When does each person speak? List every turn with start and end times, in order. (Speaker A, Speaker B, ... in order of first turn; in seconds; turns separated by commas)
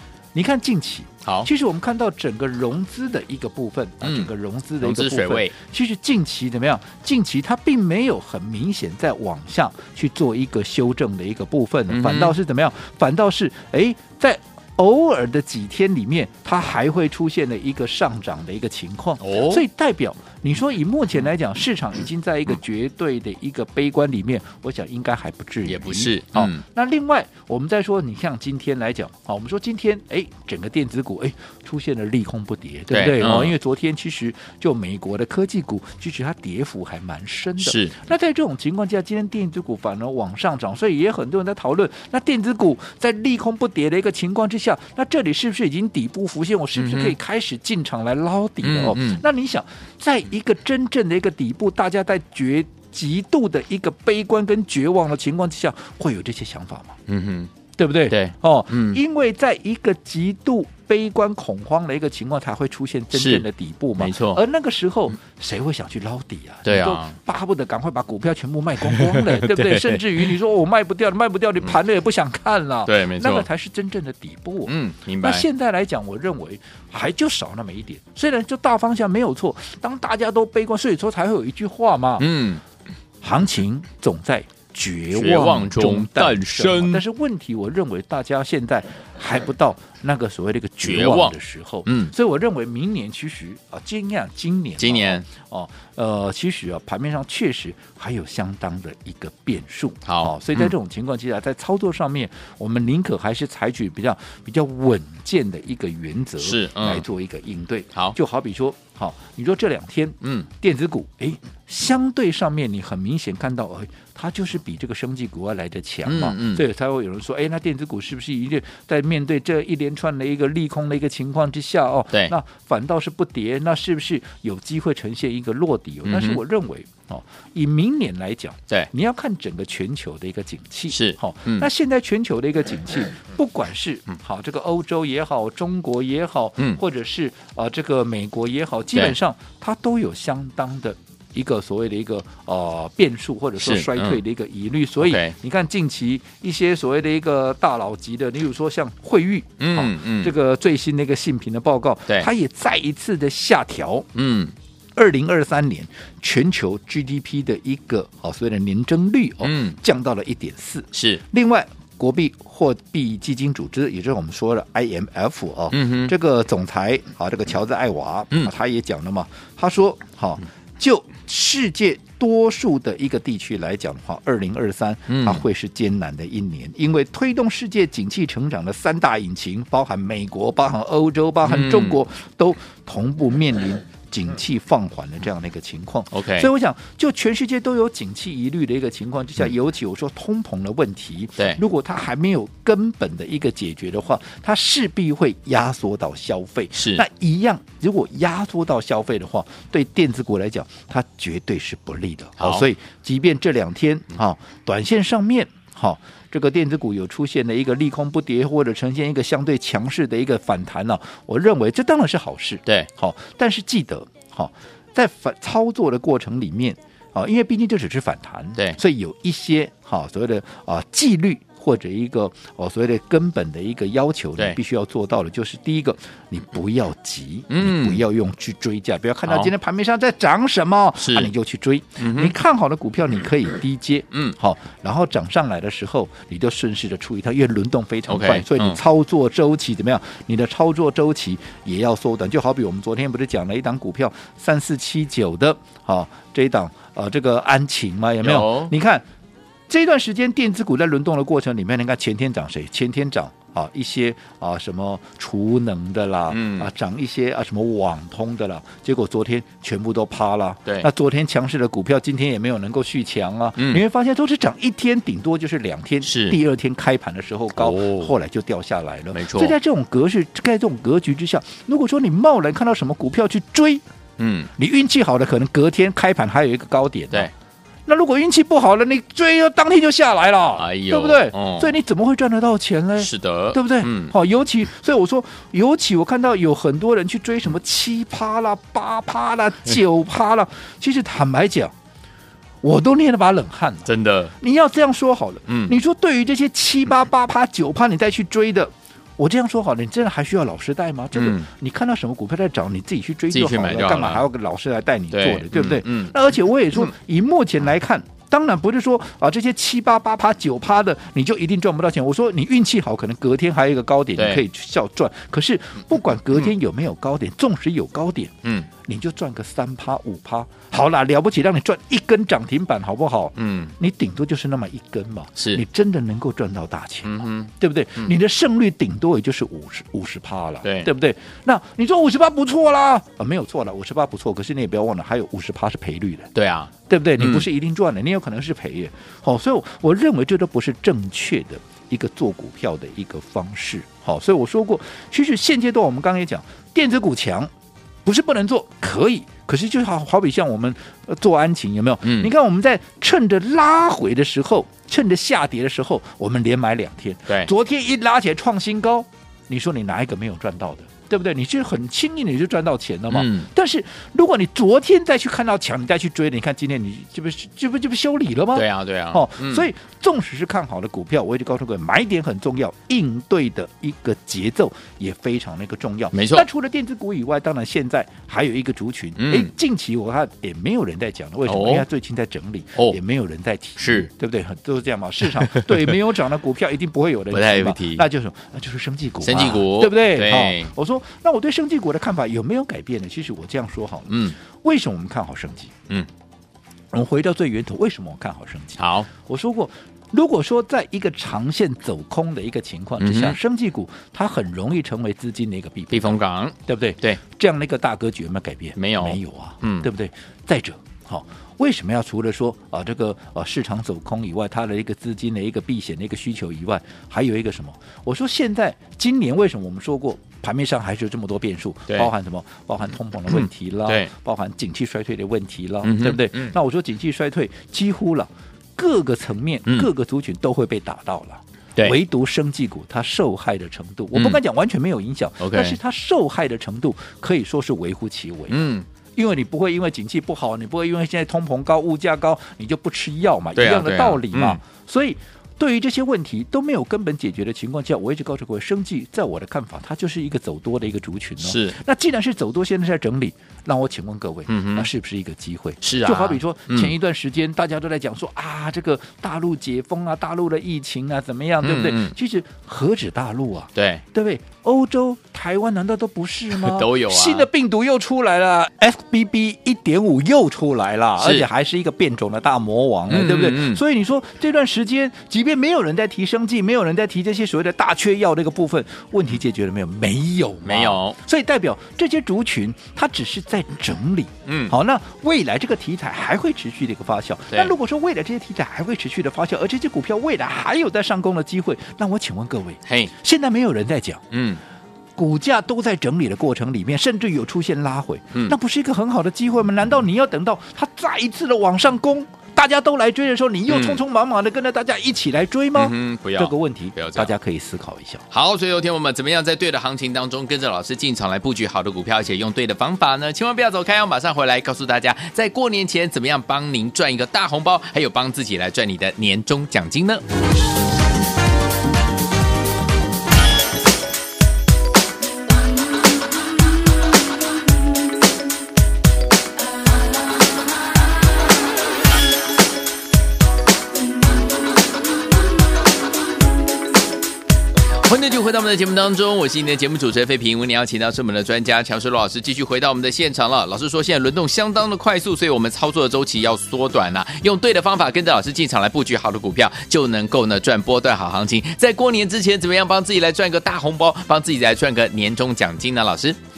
Speaker A: 0.3-57.0, Speaker B: 4.0-4.3, Speaker B: 4.8-5.5, Speaker B: 11.9-12.3, Speaker B: 19.2-19.6, Speaker B: 25.6-26.6, Speaker B: 32.9-33.5, Speaker B: 37.6-37.9, Speaker B: 46.8-47.2, Speaker B: 48.6-49.2, Speaker B: 57.1-57.5, Speaker A: 57.8-82.3, Speaker B: 58.1-59.0, Speaker B: 63.1-63.5, Speaker B: 64.0-64.4, Speaker B: 66.6-67.2, Speaker B: 68.8-70.0, Speaker B: 72.8-73.5, Speaker B: 74.7-75.5, Speaker B: 82.2-82.6, Speaker A: 83.2-154.1, Speaker B: 85.1-87.0, Speaker B: 90.8-91.3, Speaker B: 91.8-92.1, Speaker B: 94.8-95.2, Speaker B: 100.0-100.7, Speaker B: 106.4-107.0, Speaker B: 110.2-110.5, Speaker B: 116.0-116.6, Speaker B: 126.0-126.4, Speaker B: 130.9-131.7, Speaker B: 143.6-144.2, Speaker B: 145.0-145.3, Speaker B: 149.6-150.3, Speaker B: 154.1-154.5, Speaker A: 154.9-249.0, Speaker B: 159.4-159.8, Speaker B: 160.9-161.2, Speaker B: 165.7-166.1, Speaker B: 175.1-175.4, Speaker B: 181.4-182.0, Speaker B: 186.1-186.5, Speaker B: 196.7-197.0, Speaker B: 202.4-202.6, Speaker B: 227.5-228.0, Speaker B: 229.2-229.5, Speaker B: 231.0-231.3, Speaker B: 232.0-232.3, Speaker B: 238.1-238.8, Speaker B: 248.2-248.7, Speaker A: 249.7-273.8, Speaker B: 256.3-256.7, Speaker B: 266.0-266.4, Speaker B: 267.6-268.1, Speaker B: 269.1-269.5, Speaker B: 274.2-274.5, Speaker A: 274.6-277.3, Speaker A: 277.9-291.7, Speaker B: 280.6-281.8, Speaker B: 283.0-284.1, Speaker A: 292.6-336.3, Speaker B: 293.9-294.3, Speaker B: 295.5-295.8, Speaker B: 301.1-301.5, Speaker B: 303.3-304.2, Speaker B: 305.1-306.1, Speaker B: 314.1-314.4, Speaker B: 323.4-323.7, Speaker B: 325.4-325.6, Speaker B: 327.0-328.1, Speaker B: 330.6-330.9, Speaker B: 336.3-337.4, Speaker A: 336.9-347.5, Speaker A: 348.0-395.7, Speaker B: 352.0-352.3, Speaker B: 363.1-363.5, Speaker B: 368.5-369.7, Speaker B: 376.1-376.4, Speaker B: 379.2-379.5, Speaker B: 381.4-381.9, Speaker B: 383.8-384.1, Speaker B: 385.5-385.9, Speaker B: 387.3-388.1, Speaker B: 389.2-390.7, Speaker B: 394.1-394.4, Speaker A: 396.9-494.2, Speaker B: 398.8-399.1, Speaker B: 403.0-403.4, Speaker B: 405.9-407.2, Speaker B: 408.8-409.9, Speaker B: 423.3-424.1, Speaker B: 425.8-426.5, Speaker B: 434.1-434.4, Speaker B: 435.4-435.8, Speaker B: 438.5-438.9, Speaker B: 443.6-444.6, Speaker B: 451.4-451.8, Speaker B: 454.5-454.9, Speaker B: 455.8-456.9, Speaker B: 461.6-462.1, Speaker B: 463.7-464.0, Speaker B: 466.6-467.5, Speaker B: 471.2-471.5, Speaker B: 473.1-473.8, Speaker B: 480.6-481.2, Speaker B: 484.4-484.7, Speaker B: 492.9-493.1, Speaker B: 494.3-494.6, Speaker A: 495.2-508.2, Speaker B: 503.7-504.0, Speaker B: 505.7-507.3, Speaker B: 508.3-520.2, Speaker B: 537.9-556.4